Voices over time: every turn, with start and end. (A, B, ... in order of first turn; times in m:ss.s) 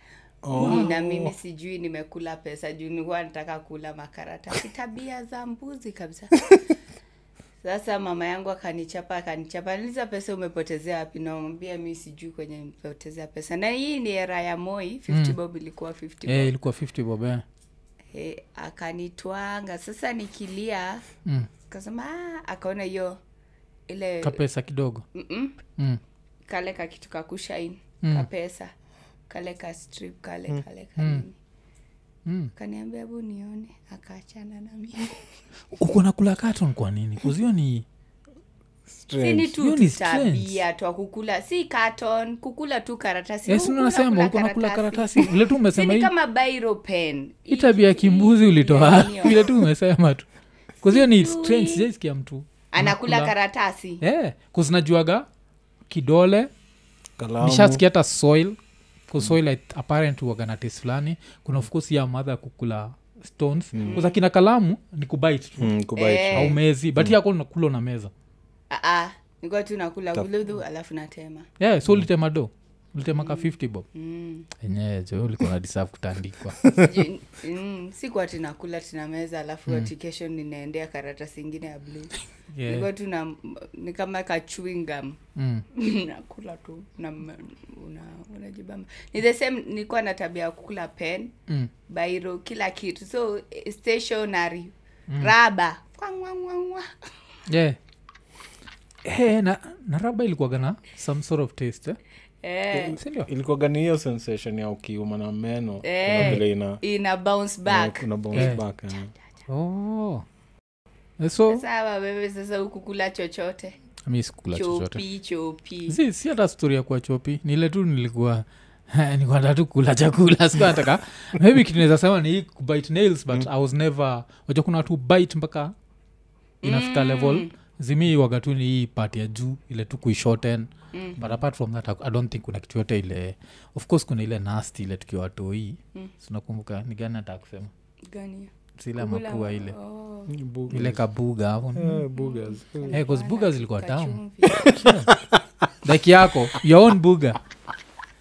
0:00.4-0:01.3 A
0:00.5-0:06.5 B
0:07.6-0:16.5 B
0:15.1-0:15.4 C
0:16.3-0:17.4 C
0:18.1-0:21.1 B
0:21.7-0:23.2 B
0:23.9-0:24.4 B
0:24.2-0:25.1 C
0:25.1-0:25.6 B
0:26.5-0:28.7 B
0:29.3-0:31.4 B
0:31.0-0:31.2 C
0:32.3-0:32.5 C
0:32.6-0:35.2 B
0:35.7-0:37.8 C
0:38.9-0:39.5 A
0:39.2-0:49.6 B
0:39.6-0:40.6 C
0:43.5-0:46.1 C
0:47.5-0:50.3 C
0:50.8-0:53.3 C
0:50.9-0:51.9 B
0:52.7-0:54.0 B
0:54.0-0:55.3 C
0:55.9-0:56.5 C
0:57.2-0:57.8 A
0:57.4-0:58.6 C
0:59.1-1:05.7 C
1:03.7-1:04.0 A
1:03.8-1:04.2 B
1:05.6-1:07.1 A
1:06.0-1:06.6 B
1:06.3-1:08.1 C
1:08.7-1:11.5 B
1:11.6-1:13.9 C
1:13.2-1:14.5 B
1:14.6-1:16.8 C
1:16.7-1:22.1 B
1:22.5-1:22.9 C
1:22.7-1:25.2 B
1:25.4-1:25.6 C
1:25.7-1:31.3 B
1:31.9-1:36.9 B
1:37.5-1:37.8 C
1:39.0-1:42.0 C
1:42.4-1:43.0 B
1:42.7-1:46.8 A
1:43.0-1:43.3 C
1:45.8-1:48.5 B
1:47.7-1:49.1 A
1:48.4-1:48.6 C
1:49.5-1:50.2 C
1:51.2-1:51.6 C
1:51.5-1:53.8 B
1:54.1-1:55.0 C
1:54.5-1:56.0 B
1:55.9-2:05.7 C
2:06.6-2:07.5 B
2:06.6-2:17.7 C
2:10.9-2:11.2 B
2:18.1-2:20.3 B
2:18.8-2:19.8 C
2:20.3-2:21.0 A
2:20.7-2:22.0 C
2:21.8-2:23.0 A
2:22.2-2:24.8 B
2:22.9-2:25.2 C
2:24.6-2:25.4 A
2:25.8-2:27.4 C